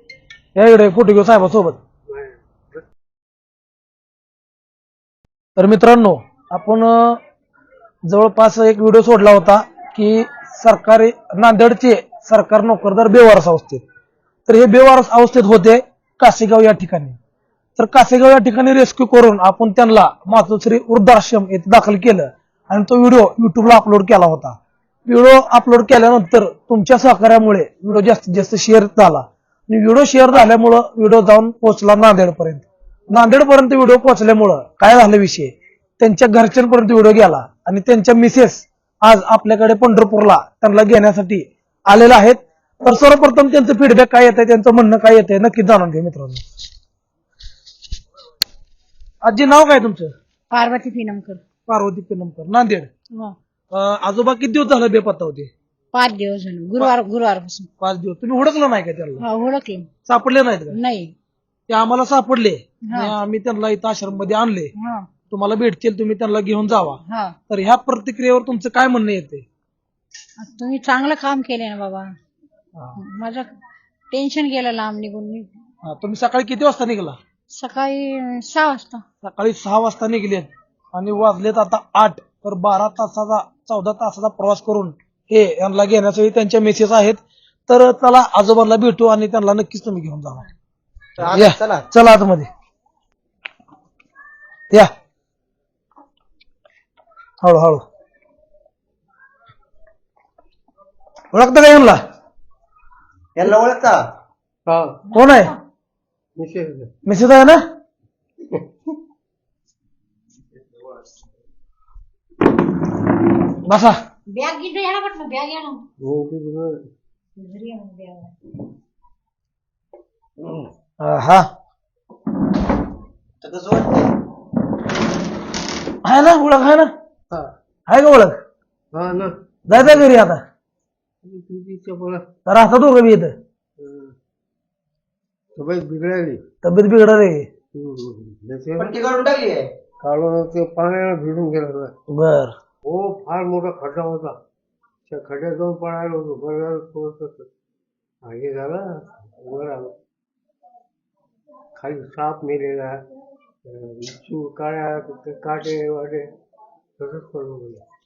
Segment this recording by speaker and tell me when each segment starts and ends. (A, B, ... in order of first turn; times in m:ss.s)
0:00.6-0:01.8 A
0:02.1-0:02.8 B
0:05.6-0:07.2 A
0:08.1-0:13.8 A
0:14.5-0:17.2 A
0:17.8-0:24.6 A
0:25.1-0:46.4 A
0:49.2-0:50.1 A
0:50.5-0:51.4 C
0:51.7-0:52.9 A
0:53.7-0:55.5 A
0:55.9-0:57.7 C
0:57.8-0:59.2 A
0:59.2-0:59.9 C
1:00.1-1:00.8 A
1:00.7-1:01.1 C
1:01.7-1:04.7 A
1:02.9-1:03.1 C
1:04.8-1:05.1 C
1:05.3-1:09.4 A
1:07.1-1:07.4 C
1:10.4-1:12.2 C
1:13.0-1:13.5 C
1:14.1-1:15.5 C
1:15.8-1:17.2 A
1:17.5-1:19.0 C
1:19.2-1:30.5 A
1:31.2-1:32.5 A
1:31.2-1:31.8 D
1:37.4-1:37.8 A
1:41.3-1:42.0 A
1:43.4-1:44.0 D
1:44.7-1:45.0 B
1:45.1-1:45.5 C
1:45.1-1:45.5 A
1:46.4-1:46.9 B
1:47.0-1:47.6 A
1:53.7-1:54.0 A
1:54.3-1:55.8 C
1:56.0-1:56.8 B
1:57.4-1:58.3 C
2:00.4-2:00.7 B
2:01.0-2:01.5 A
2:03.4-2:04.1 D
2:06.0-2:06.9 A
2:07.9-2:08.4 A
2:08.9-2:10.1 B
2:09.7-2:10.4 A
2:11.2-2:12.3 B
2:12.5-2:13.3 A
2:13.8-2:14.2 B
2:15.6-2:16.4 B
2:16.6-2:17.4 A
2:17.7-2:19.2 B
2:19.0-2:19.7 D
2:20.0-2:21.9 B
2:22.1-2:22.5 A
2:22.8-2:24.4 B
2:25.1-2:27.5 B
2:28.2-2:30.0 B
2:31.8-2:33.0 B
2:33.6-2:36.3 B
2:37.0-2:37.8 B